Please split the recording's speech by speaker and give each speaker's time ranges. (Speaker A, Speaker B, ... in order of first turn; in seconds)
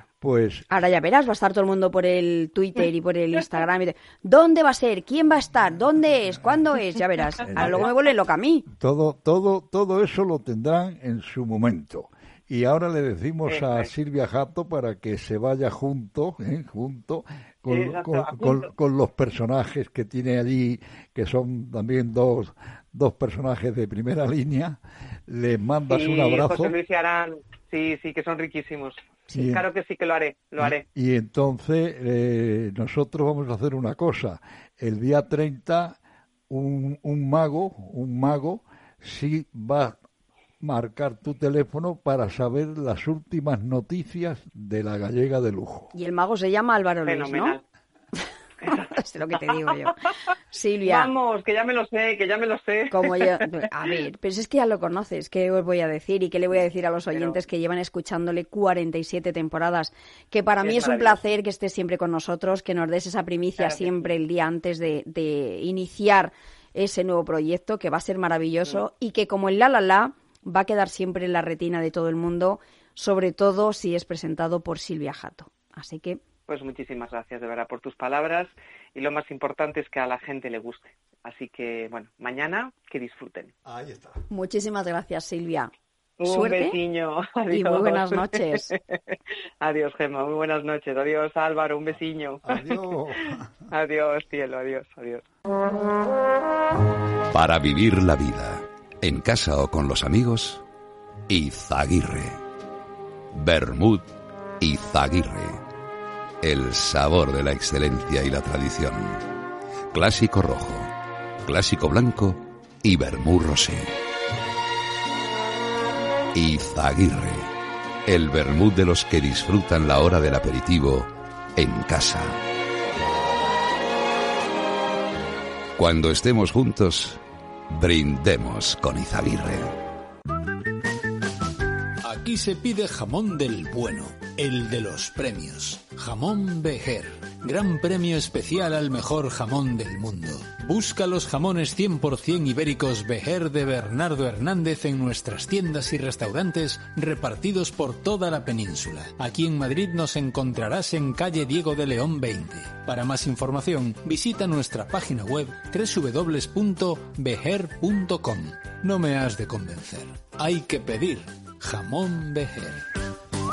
Speaker A: 0.2-0.7, 7.4-7.9, 8.7-26.7, 29.3-29.6, 30.6-36.0, 36.5-40.0, 40.6-45.9, 83.6-84.2, 92.4-93.5
Speaker B: 0.7-8.6, 45.9-47.5, 48.7-50.0, 50.5-51.1, 52.9-76.2, 84.3-85.7, 86.2-86.8, 87.5-88.7
Speaker C: 7.6-7.8, 13.5-13.9, 17.7-18.7, 25.9-30.8, 47.0-47.6, 50.9-53.4, 57.1-57.4, 60.6-61.2, 63.6-64.1, 76.5-83.5, 86.2-92.9, 93.7-95.2
Speaker D: 97.3-100.6, 101.3-102.4, 103.3-105.6, 106.4-109.3, 109.9-110.9, 111.4-113.9, 116.3-117.5, 118.0-122.4, 125.8-129.7
Speaker E: 132.0-162.8